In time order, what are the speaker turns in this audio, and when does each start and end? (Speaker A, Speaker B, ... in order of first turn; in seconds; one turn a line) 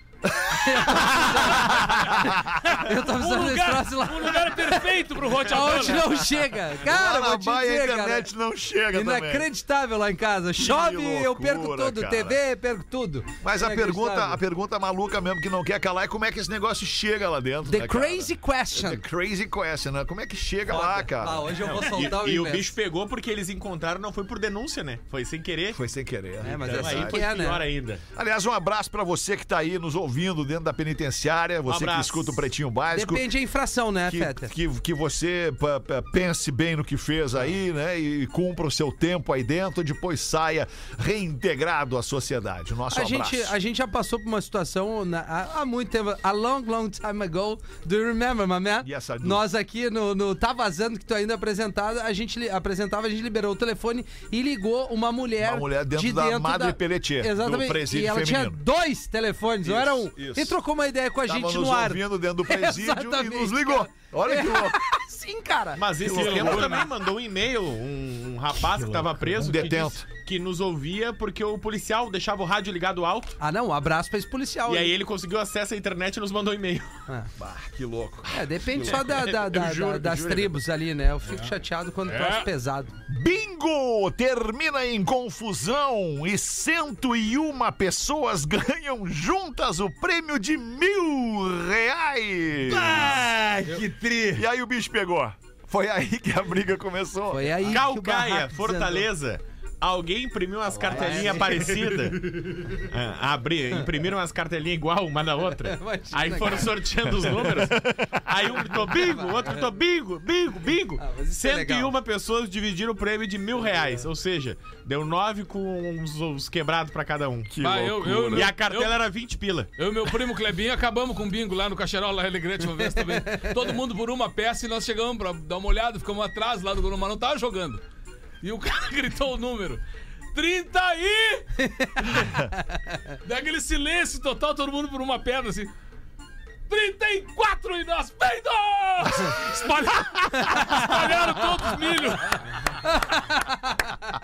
Speaker A: 0.2-2.7
Speaker B: 0.5-2.1
Speaker C: 2.6-6.0
Speaker B: 2.8-4.8
Speaker A: 5.4-9.5
Speaker B: 5.5-8.3
Speaker B: 8.9-14.4
Speaker A: 10.6-12.4
Speaker A: 13.4-21.5
Speaker B: 17.6-19.0
Speaker B: 20.7-22.7
Speaker D: 21.6-25.8
Speaker A: 25.7-27.2
Speaker B: 26.4-27.6
Speaker D: 26.5-28.0
Speaker A: 28.1-33.3
Speaker D: 31.7-32.5
Speaker B: 32.9-34.5
Speaker A: 34.1-43.5
Speaker B: 42.9-66.2
Speaker A: 48.8-49.4
Speaker A: 55.4-58.6
Speaker A: 59.6-60.6
Speaker A: 61.3-64.8
Speaker D: 65.8-73.4
Speaker A: 66.0-66.9
Speaker C: 66.1-66.8
Speaker E: 68.7-69.6
Speaker A: 69.4-70.1
Speaker B: 73.4-74.9
Speaker D: 74.7-77.0
Speaker A: 77.4-79.3
Speaker B: 78.3-82.9
Speaker D: 78.9-80.5
Speaker C: 82.1-82.5
Speaker A: 83.1-93.2
Speaker E: 92.7-94.5
Speaker A: 94.3-97.8
Speaker B: 97.3-99.1
Speaker D: 97.7-117.5
Speaker B: 100.9-101.7
Speaker B: 105.7-106.7
Speaker A: 107.3-108.5
Speaker B: 108.9-109.5
Speaker B: 111.0-112.0
Speaker A: 117.5-118.5
Speaker C: 117.6-119.0
Speaker D: 118.3-119.7
Speaker C: 119.8-127.8
Speaker B: 122.8-123.6
Speaker C: 128.4-131.5
Speaker B: 131.6-132.8
Speaker C: 133.2-135.7
Speaker C: 136.7-143.3
Speaker B: 140.3-140.9
Speaker B: 142.8-143.9